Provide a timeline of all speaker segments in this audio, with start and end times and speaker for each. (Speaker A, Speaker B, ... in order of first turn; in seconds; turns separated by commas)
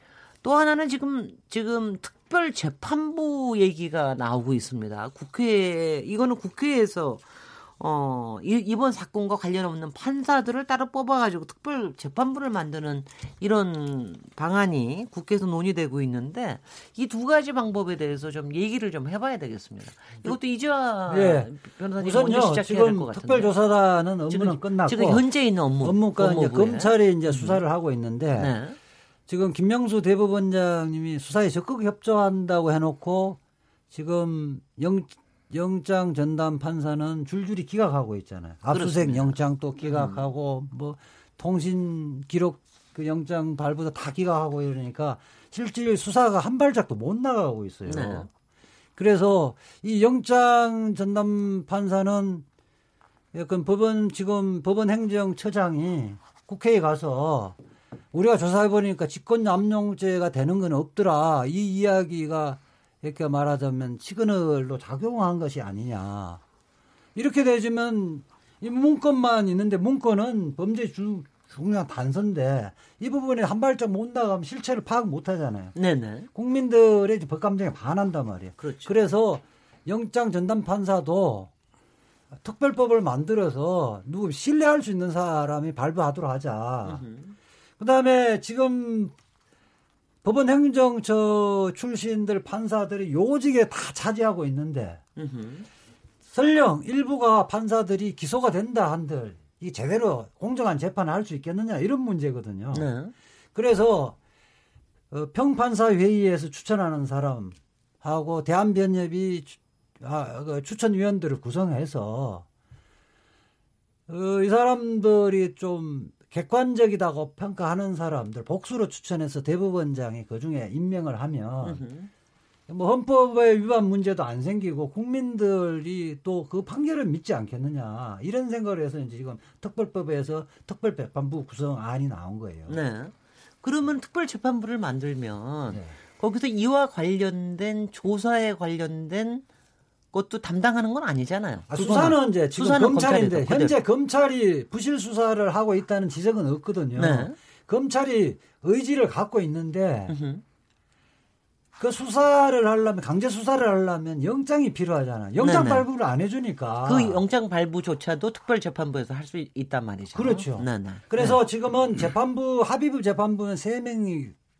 Speaker A: 0.4-23.5, Speaker B: 21.1-25.2, Speaker A: 24.3-27.6, Speaker B: 25.8-28.5, Speaker A: 28.4-28.8, Speaker B: 29.3-33.4, Speaker B: 33.9-48.3, Speaker A: 38.7-40.2, Speaker A: 47.9-48.3, Speaker B: 49.0-52.4, Speaker B: 53.3-57.6, Speaker B: 58.1-66.4, Speaker B: 67.2-75.7, Speaker A: 75.8-76.3, Speaker B: 76.3-81.5, Speaker A: 78.6-78.9, Speaker B: 82.4-87.0, Speaker A: 86.8-87.3, Speaker B: 87.8-89.1, Speaker B: 90.2-95.0, Speaker A: 95.2-95.7, Speaker B: 96.3-102.9, Speaker A: 102.7-103.1, Speaker B: 103.5-104.2, Speaker B: 105.1-112.5, Speaker B: 114.1-121.8, Speaker A: 121.6-122.1, Speaker B: 122.7-132.8, Speaker A: 132.7-139.4, Speaker B: 135.7-135.9, Speaker A: 140.1-143.8, Speaker B: 141.7-150.1, Speaker A: 146.9-147.3, Speaker A: 150.1-150.4, Speaker B: 151.8-157.2, Speaker A: 155.4-155.8, Speaker A: 156.8-161.4, Speaker B: 160.1-164.3